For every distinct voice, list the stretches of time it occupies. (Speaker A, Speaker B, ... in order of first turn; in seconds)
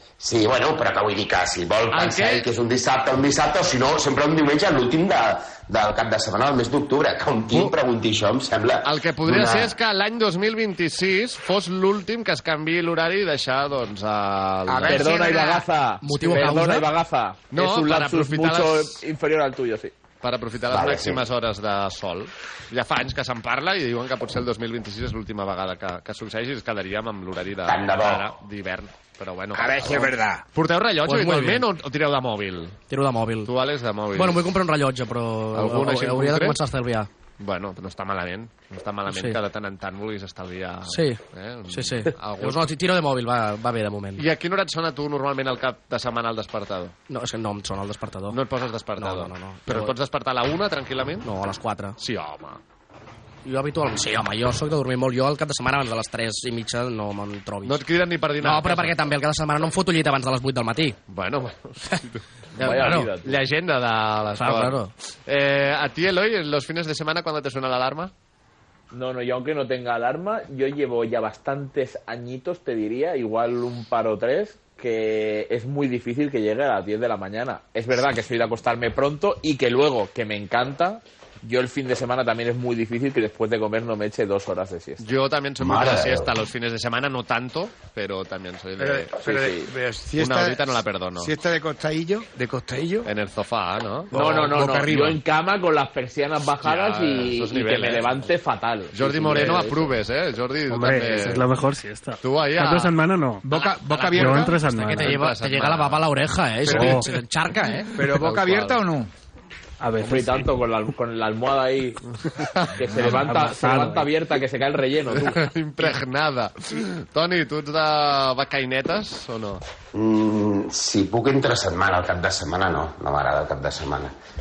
Speaker A: 0.2-9.7, 20.7-21.2, 27.6-28.2, 85.6-86.3, 119.9-124.1
Speaker B: 1.9-2.5, 8.8-15.6, 17.5-19.0, 20.2-32.8, 33.4-34.5, 35.5-36.6, 37.4-42.7, 44.2-46.9, 48.3-51.3, 52.0-52.6, 57.6-59.0, 61.1-68.1, 85.0-89.1, 90.2-91.3, 93.0-94.5, 96.6-98.2, 98.9-101.5, 102.2-103.0, 103.5-106.1, 106.7-107.0, 108.1-108.8, 112.3-113.1, 115.1-119.6
Speaker C: 14.7-15.1, 29.5-30.4, 88.8-93.1, 94.1-95.2, 103.5-104.6, 106.7-107.0, 107.9-109.1
Speaker D: 14.8-19.9, 62.6-63.4, 68.9-85.0, 89.2-89.7, 94.1-99.9, 110.0-112.0, 112.8-115.4
Speaker E: 15.2-16.9, 31.0-31.6, 32.9-33.5, 34.1-37.1, 39.1-39.4, 40.9-44.2, 47.1-48.4, 49.0-49.9, 51.2-52.0, 53.4-57.8, 58.4-61.0, 62.5-63.1, 64.3-64.9, 104.6-108.0
Speaker F: 100.7-103.4, 104.1-105.1, 109.8-110.5, 113.2-114.1